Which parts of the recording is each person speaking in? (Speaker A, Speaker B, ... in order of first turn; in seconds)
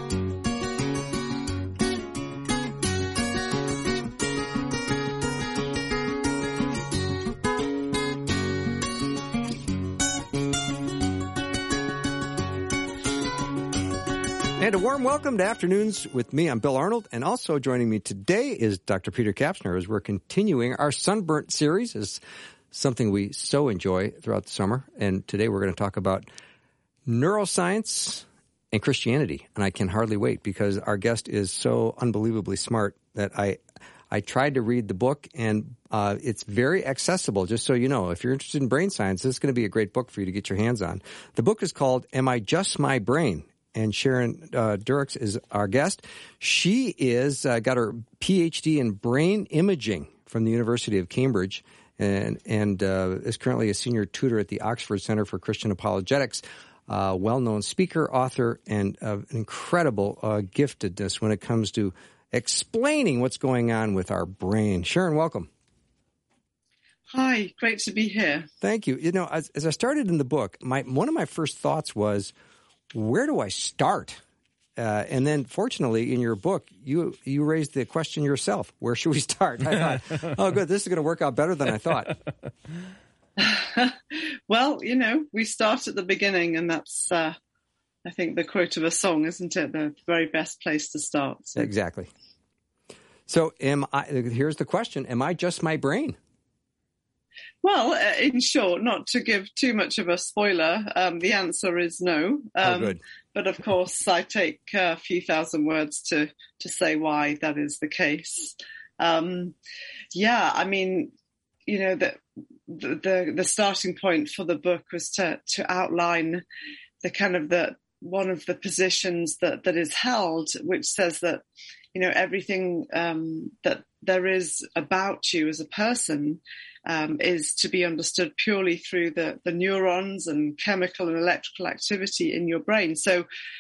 Speaker A: 14.6-26.3, 27.1-33.6, 34.1-65.5, 68.6-72.3, 72.9-74.2, 74.8-82.2, 91.6-92.1, 93.3-96.2, 102.6-103.0
Speaker B: 67.1-68.5, 83.4-87.3, 88.0-91.7, 97.6-109.6, 110.1-111.1, 111.7-116.4, 117.0-121.4, 121.9-133.3